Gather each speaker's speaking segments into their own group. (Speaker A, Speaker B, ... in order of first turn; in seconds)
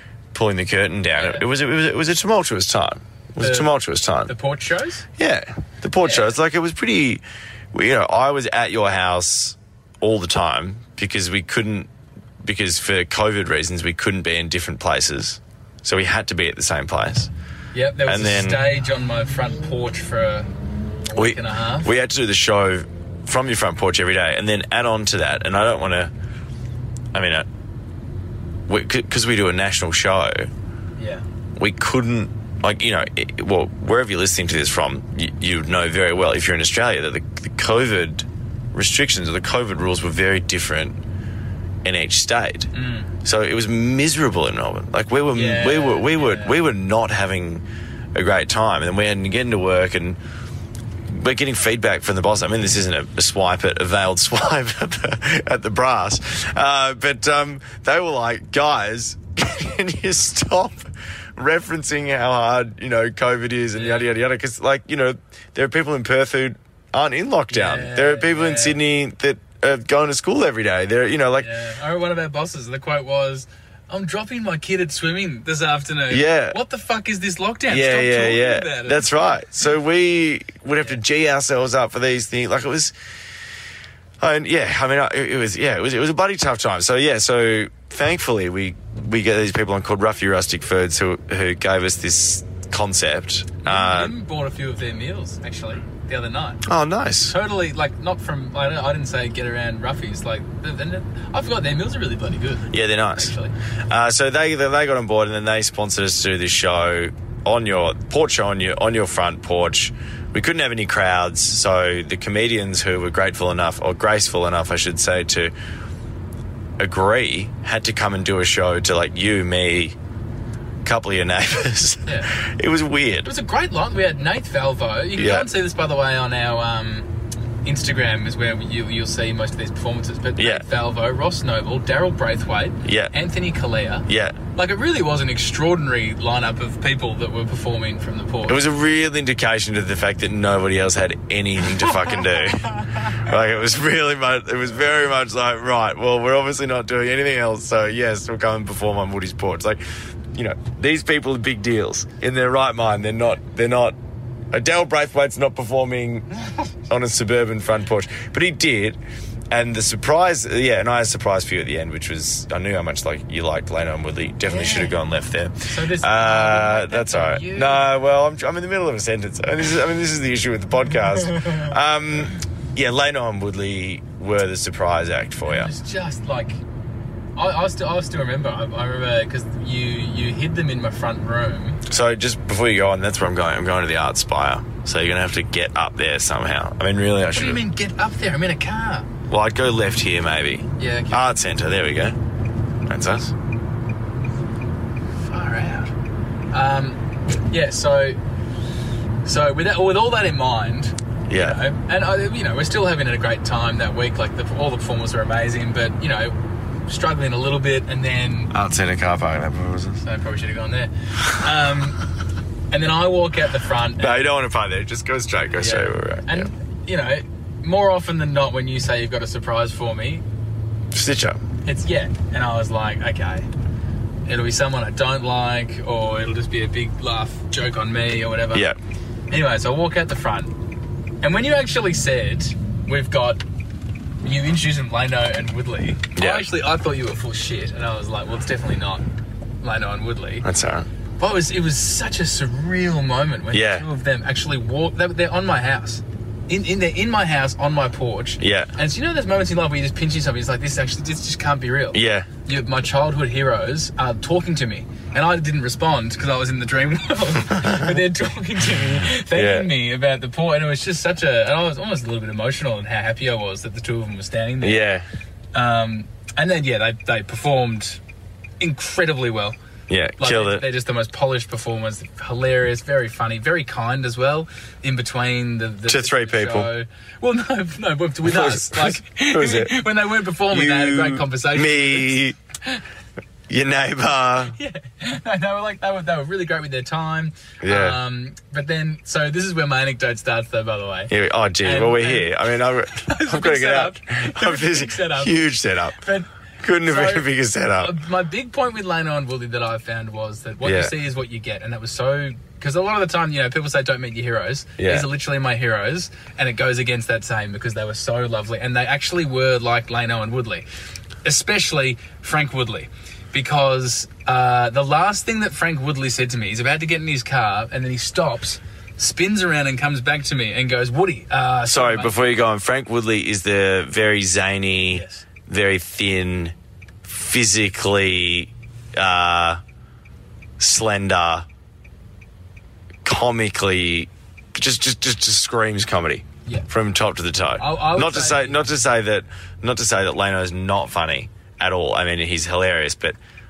Speaker A: 0.3-4.3, 5.2-11.9, 12.4-17.3, 18.0-18.7, 21.1-26.1, 27.1-27.4, 28.7-30.5, 31.6-41.0, 41.8-42.7, 43.2-50.2, 51.1-71.5, 76.1-76.6, 77.7-82.9, 84.2-94.1, 96.6-97.3, 102.7-103.4, 103.9-115.5, 116.8-120.0, 120.8-123.3, 125.2-125.5, 130.3-130.7, 132.8-133.1, 134.1-134.4, 138.4-149.8, 150.3-153.9, 154.5-156.3, 156.9-159.0, 159.5-175.7, 181.9-187.6, 189.3-192.2, 192.8-193.3, 201.3-201.6, 208.5-210.0, 214.0-216.5, 220.9-221.4, 236.1-236.5, 240.4-240.9, 243.5-243.8, 248.4-248.7, 251.9-252.3, 259.3-259.7, 264.6-265.1, 269.9-270.6, 275.9-276.7, 278.2-279.8, 280.5-282.4, 283.5-284.6, 287.6-288.0, 291.1-296.0, 296.6-298.0, 300.6-300.9, 304.8-305.1, 321.7-329.6, 330.6-331.4, 333.0-343.2
Speaker B: 1.1-1.4, 3.4-3.7, 4.2-5.1, 6.0-6.3, 17.7-20.5, 21.1-21.9, 31.0-31.2, 42.7-43.1, 45.3-46.6, 63.7-64.1, 67.5-68.8, 71.4-79.2, 93.6-96.6, 97.2-103.5, 122.0-122.3, 123.2-127.1, 127.6-138.6, 164.5-164.9, 165.7-167.9, 175.4-176.6, 177.3-181.8, 187.3-189.1, 190.8-191.3, 195.2-195.9, 196.5-198.2, 199.2-208.5, 210.0-212.0, 212.7-214.2, 215.5-220.2, 221.6-223.5, 224.2-228.7, 229.3-230.6, 231.2-233.4, 234.2-239.0, 239.6-240.5, 241.2-264.9, 265.5-268.0, 268.6-269.6, 270.2-282.8, 284.5-292.3, 292.9-296.3, 296.8-297.3, 297.8-310.6, 311.2-322.4, 324.9-325.2, 336.4-336.7, 337.6-338.6